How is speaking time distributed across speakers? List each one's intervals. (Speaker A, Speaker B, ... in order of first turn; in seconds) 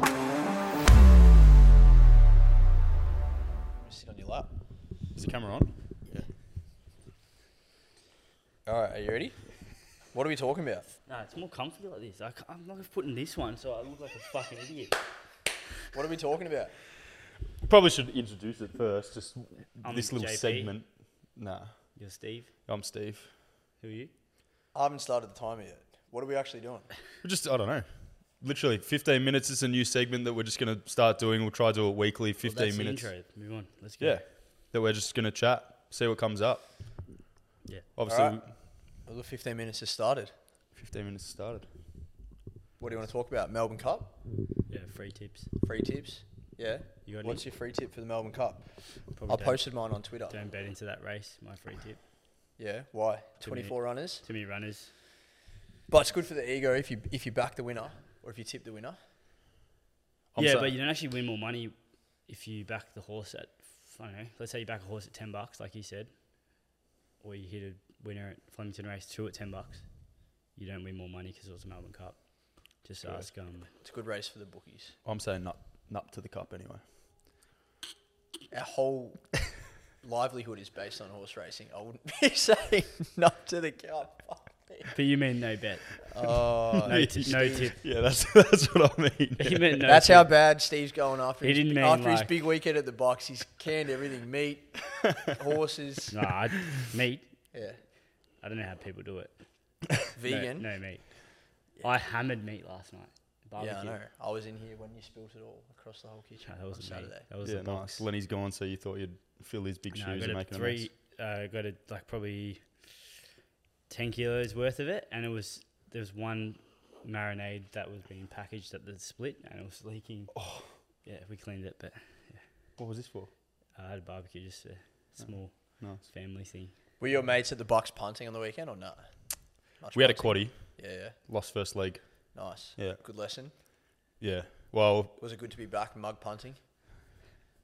Speaker A: 3.7-4.5, 8.7-10.9, 15.9-16.8, 24.7-26.9, 38.1-38.5, 39.0-40.3, 42.8-44.1, 45.6-48.7, 49.2-50.4, 52.6-54.2, 55.9-59.0, 73.8-75.0, 78.5-79.4, 80.0-84.9, 86.0-87.8, 89.8-96.2, 97.5-97.8, 100.1-100.8, 103.6-107.3, 127.0-131.2, 132.3-133.5, 135.2-136.6
Speaker B: 5.2-5.7, 17.6-22.1, 22.7-23.4, 27.2-33.1, 34.0-36.9, 38.0-38.5, 40.7-41.7, 60.3-60.8, 75.0-76.8, 86.8-90.1, 107.4-110.9, 120.3-120.7, 122.8-123.3, 125.2-126.0, 129.9-133.0, 134.2-135.2
Speaker C: 11.1-15.0, 19.8-20.7, 21.9-22.5, 23.8-24.1, 32.4-34.2, 44.7-45.5, 47.0-47.4, 49.1-52.0, 53.4-54.9, 60.4-61.7, 62.3-66.1, 67.2-69.8, 70.5-73.7, 84.9-86.0, 86.8-87.8, 89.4-90.4, 91.4-92.4, 96.1-97.3, 98.4-99.4, 100.2-104.0, 106.4-108.1, 109.9-112.7, 113.9-120.5, 121.0-122.4, 123.8-127.3